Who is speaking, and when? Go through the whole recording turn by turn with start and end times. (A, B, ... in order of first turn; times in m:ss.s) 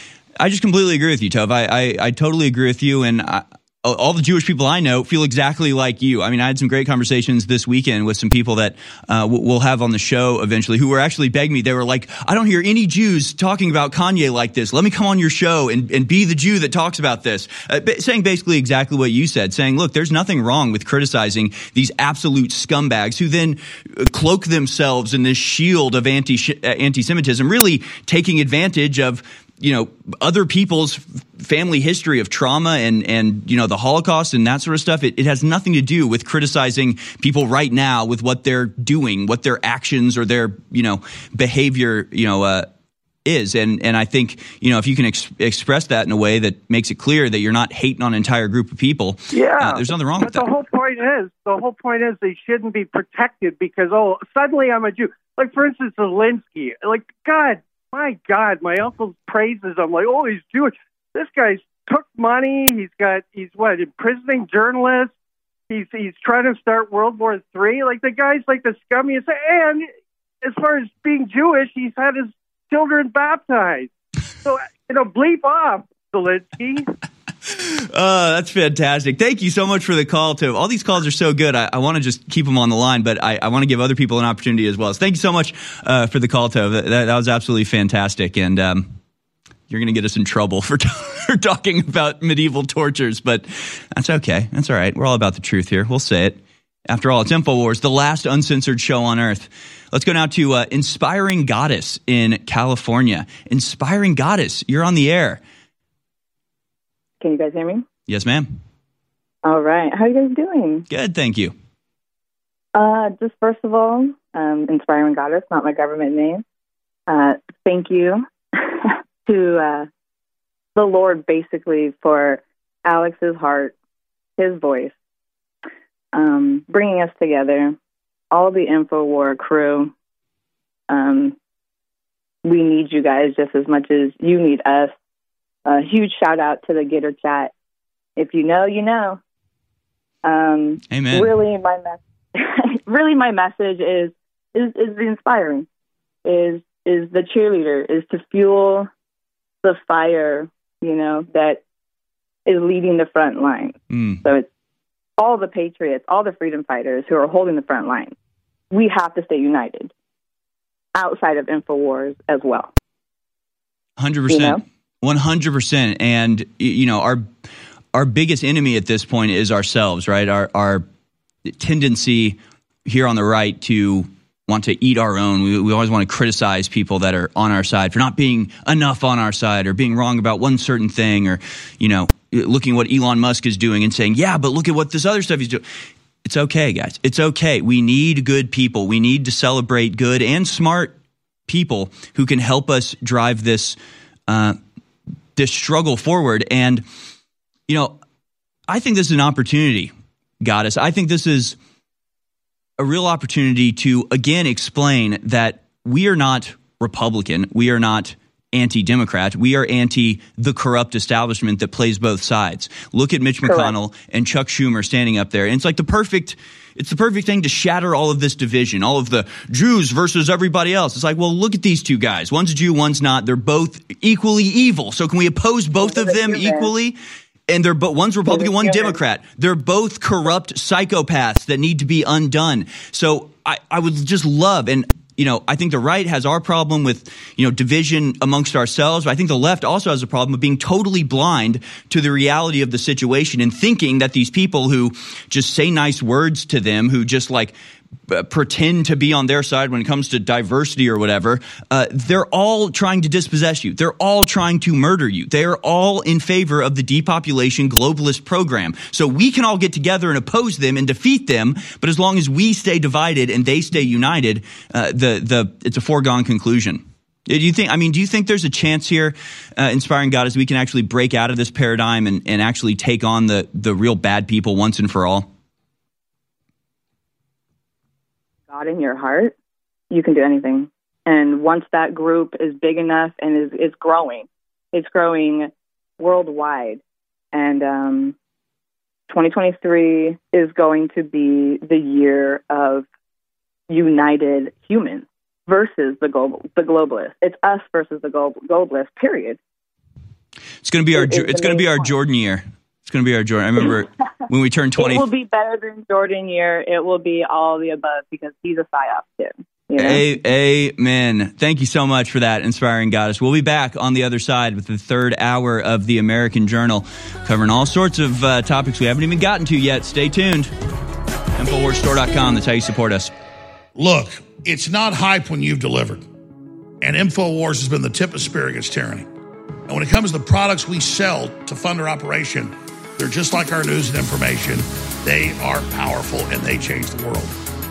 0:00.4-0:42.7 A
0:43.3-0:50.5 A
0:49.3-1:05.1 B
1:05.7-1:09.9 B
1:10.4-1:13.9 B
1:14.4-1:16.9 B
1:17.5-1:29.0 A
1:29.7-1:45.4 A
1:47.2-1:47.9 C
1:48.1-1:48.6 A
1:49.4-1:50.9 C
1:50.9-1:51.5 A
1:52.8-1:56.4 C
1:57.1-1:59.9 C
2:00.8-2:03.8 C
2:04.4-2:04.9 C
2:06.1-2:07.8 C
2:08.3-2:09.9 C
2:10.9-2:11.4 C
2:12.4-2:14.9 C
2:15.7-2:17.5 C
2:18.2-2:19.2 C
2:20.2-2:25.7 C
2:20.9-2:21.3 A
2:26.2-2:28.9 C
2:29.6-2:31.6 C
2:32.5-2:34.5 C
2:33.9-2:34.2 A
2:35.2-2:38.2 C
2:38.7-2:39.9 C
2:41.0-2:42.7 C
2:44.0-2:47.3 A
2:44.3-2:44.6 C
2:47.9-2:50.9 A
2:51.5-3:05.6 A
3:06.2-3:11.0 A
3:11.5-3:13.8 A
3:14.3-3:14.6 A
3:15.4-3:16.8 A
3:17.7-3:18.0 A
3:18.7-3:21.6 A
3:22.8-3:47.0 A
3:33.4-3:33.7 C
3:45.8-3:46.7 C
3:47.5-4:07.5 A
3:48.3-3:49.0 C
4:08.1-4:35.3 A
4:38.5-4:39.4 C
4:39.9-4:46.8 C
4:47.3-4:48.2 C
4:49.1-4:52.9 C
4:53.7-4:59.4 C
5:00.6-5:05.1 A
5:00.9-5:01.9 C
5:04.8-5:10.1 C
5:09.8-5:20.5 A
5:21.4-5:23.1 A
5:23.8-5:26.1 D
5:26.8-5:29.1 D
5:29.7-5:37.4 D